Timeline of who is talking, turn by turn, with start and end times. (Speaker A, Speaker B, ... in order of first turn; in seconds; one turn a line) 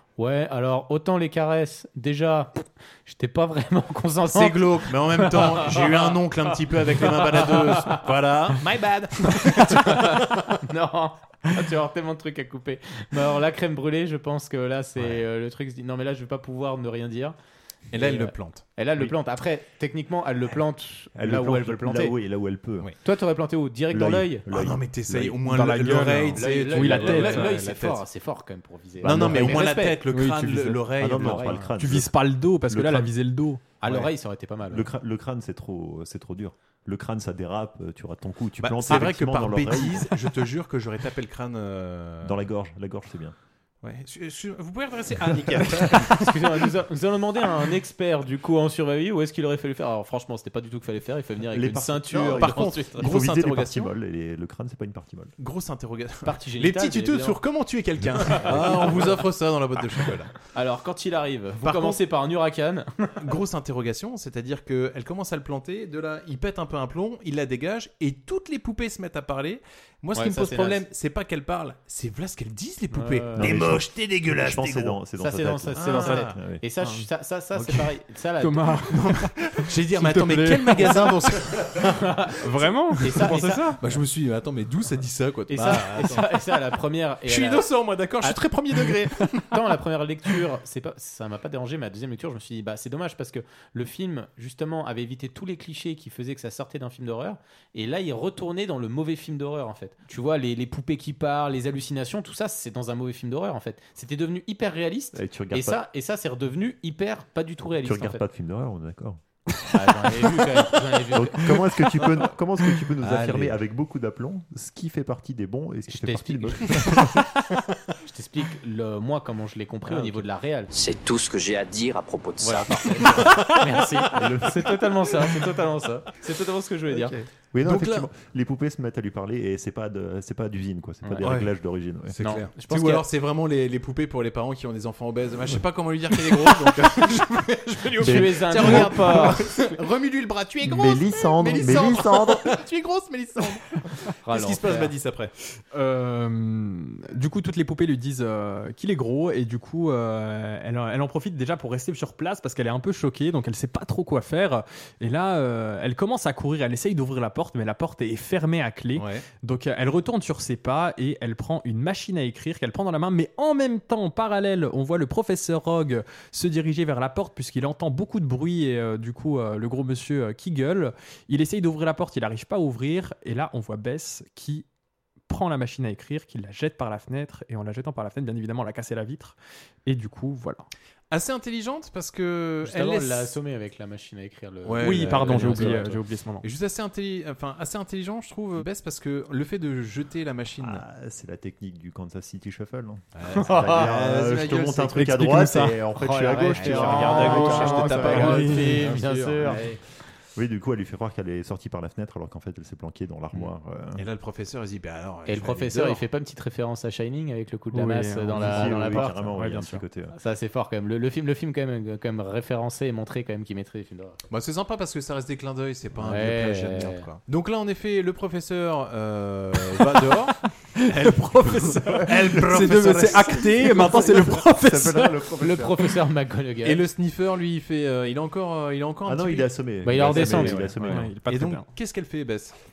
Speaker A: 0.2-6.1
Speaker B: 4.3-10.0
Speaker A: 7.0-8.0
Speaker A: 9.7-17.4
Speaker B: 17.9-18.6
Speaker A: 18.0-22.1
Speaker C: 21.1-22.9
Speaker A: 23.0-24.4
Speaker C: 23.9-25.4
Speaker B: 24.5-28.0
Speaker D: 25.4-27.7
Speaker A: 26.4-30.0
Speaker C: 29.0-29.6
Speaker B: 29.0-31.7
Speaker D: 30.1-30.9
Speaker C: 31.0-32.1
Speaker A: 31.2-31.5
Speaker D: 31.7-33.6
Speaker C: 32.7-33.1
Speaker A: 33.8-34.9
Speaker C: 34.7-40.1
Speaker B: 38.6-42.4
Speaker C: 42.2-43.4
Speaker B: 43.8-46.4
Speaker C: 45.5-45.9
Speaker A: 46.1-53.1
Speaker C: 51.5-55.3
Speaker B: 52.3-53.9
Speaker B: 55.4-60.3
Speaker A: 56.2-57.4
Speaker A: 58.3-59.2
Speaker A: 60.5-63.2
Speaker B: 61.6-62.0
Speaker B: 63.2-75.0
Speaker A: 70.2-70.8
Speaker A: 72.9-73.5
Speaker C: 73.4-76.6
Speaker A: 75.2-78.7
Speaker B: 75.8-76.3
Speaker D: 78.4-79.2
Speaker B: 78.9-82.0
Speaker D: 79.9-81.2
Speaker A: 82.0-82.3
Speaker D: 82.4-83.8
Speaker A: 83.0-83.8
Speaker B: 83.1-86.4
Speaker A: 85.5-87.7
Speaker B: 87.3-89.5
Speaker A: 89.5-108.3
Speaker C: 105.1-105.8
Speaker C: 107.8-109.2
Speaker A: 109.7-111.6
Speaker C: 111.1-117.1
Speaker B: 113.0-113.5
Speaker A: 115.9-116.7
Speaker A: 118.0-120.7
Speaker E: 120.7-122.9
Speaker A: 122.4-127.2
Speaker C: 126.9-132.2
Speaker B: 127.6-128.1
Speaker A: 131.0-131.3
Speaker B: 131.2-131.5
Speaker B: 132.1-145.3
Speaker A: 132.2-133.0
Speaker C: 138.0-139.3
Speaker A: 138.0-139.4
Speaker C: 140.6-142.6
Speaker A: 144.2-144.9
Speaker D: 145.7-174.7
Speaker B: 159.0-159.3
Speaker D: 175.3-180.7
Speaker B: 181.1-183.4
Speaker A: 182.6-186.0
Speaker B: 184.7-190.8
Speaker D: 184.8-186.5
Speaker C: 190.6-199.8
Speaker B: 193.2-195.7
Speaker A: 193.4-193.9
Speaker A: 196.0-199.6
Speaker B: 196.6-199.8
Speaker D: 198.1-198.8
Speaker C: 200.3-204.0
Speaker B: 204.0-206.0
Speaker A: 205.3-209.5
Speaker D: 207.7-209.8
Speaker C: 208.3-210.2
Speaker A: 210.2-214.2
Speaker B: 214.3-223.5
Speaker A: 216.0-217.1
Speaker D: 220.8-225.1
Speaker C: 222.0-225.8
Speaker A: 225.0-226.8
Speaker B: 226.6-232.5
Speaker C: 229.1-231.1
Speaker A: 229.8-230.7
Speaker D: 230.8-231.7